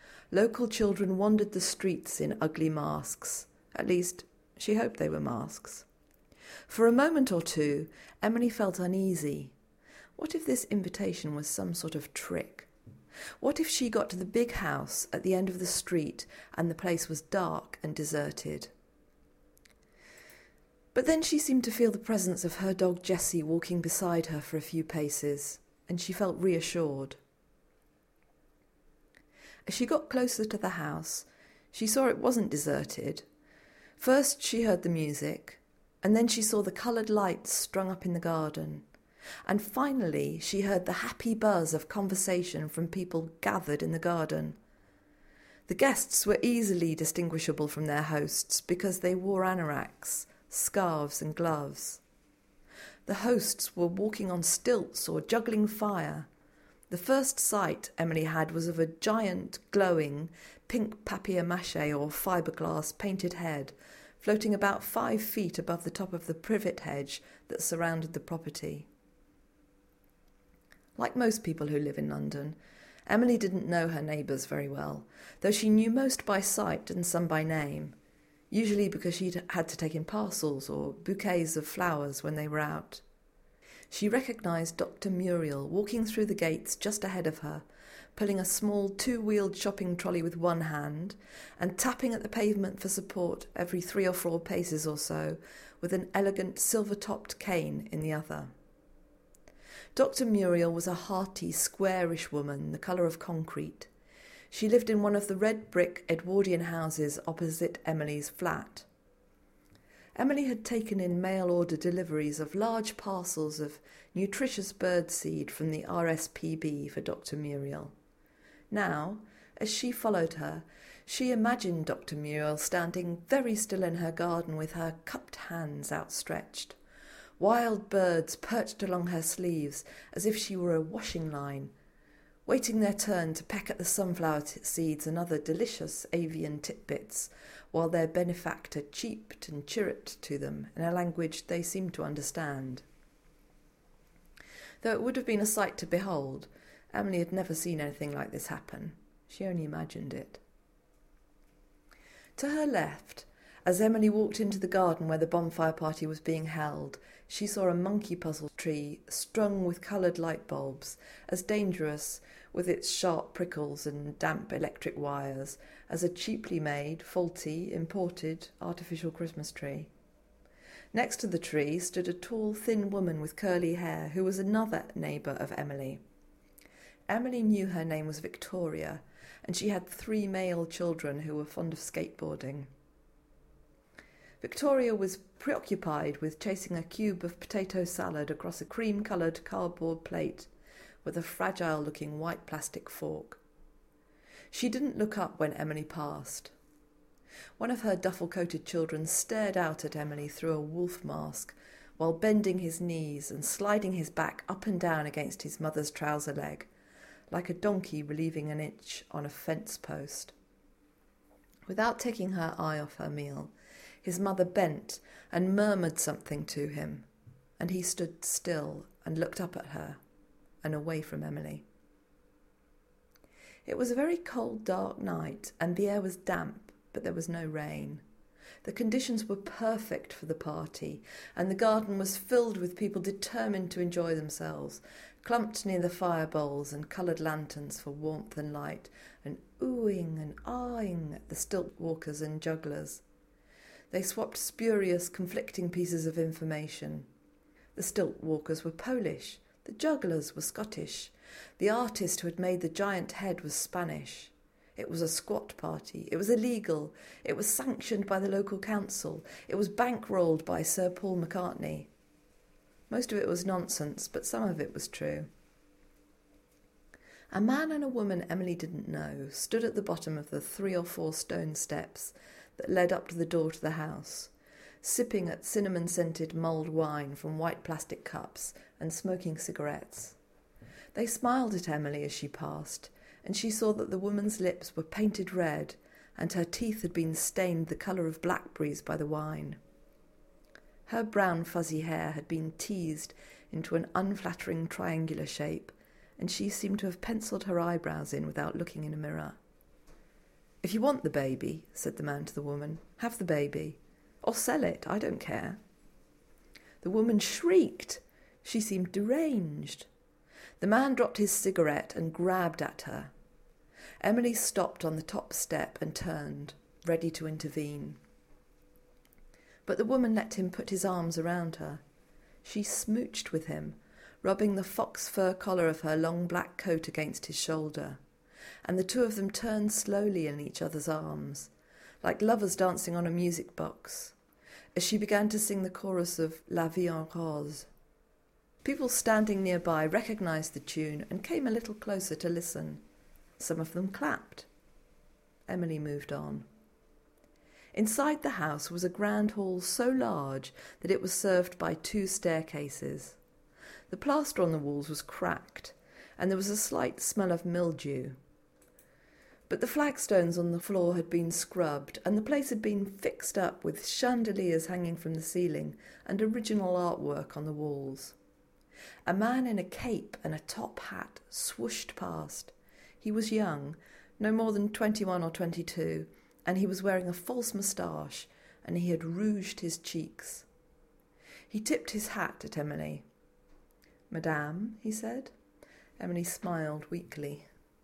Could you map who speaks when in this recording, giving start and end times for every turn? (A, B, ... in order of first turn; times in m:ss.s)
0:00.3-0:05.9 A
0:06.7-0:09.5 A
0:10.2-0:12.7 A
0:13.4-0:18.7 A
0:20.9-0:27.2 A
0:29.7-0:33.2 A
0:34.0-0:38.8 A
0:39.5-0:44.6 A
0:45.7-0:52.0 A
0:53.1-0:56.3 A
0:56.9-1:08.9 A
1:11.0-1:12.6 A
1:13.1-1:18.0 A
1:18.5-1:23.0 A
1:23.9-1:27.6 A
1:28.2-1:38.5 A
1:40.0-1:43.9 A
1:44.5-1:48.9 A
1:50.2-1:57.9 A
1:58.7-2:06.8 A
2:07.4-2:11.7 A
2:12.5-2:22.8 A
2:24.8-2:30.4 A
2:32.4-2:49.9 A
2:50.9-2:56.0 A
2:57.1-3:02.7 A
3:04.4-3:10.5 A
3:11.0-3:13.4 A
3:14.5-3:16.5 A
3:17.6-3:26.7 A
3:27.3-3:30.3 A
3:31.7-3:37.1 A
3:37.6-3:40.0 A
3:40.6-3:41.6 A
3:43.6-3:48.0 A
3:48.6-4:03.0 A
4:03.9-4:07.1 A
4:07.8-4:21.9 A
4:22.9-4:25.3 A
4:27.3-4:40.2 A
4:40.9-4:49.6 A
4:50.9-4:59.4 A
5:00.6-5:05.6 A
5:06.8-5:09.9 A
5:10.6-5:13.1 A
5:14.0-5:18.0 A
5:19.7-5:21.8 A
5:22.4-5:28.0 A
5:28.6-5:31.5 A
5:32.0-5:34.2 A
5:34.8-5:37.7 A
5:38.6-5:42.8 A
5:43.4-5:44.5 A
5:45.5-5:46.4 A
5:47.7-5:53.2 A
5:53.9-5:58.2 A
5:59.5-6:08.2 A
6:09.1-6:20.5 A
6:21.5-6:23.0 A
6:24.1-6:25.3 A
6:26.0-6:27.5 A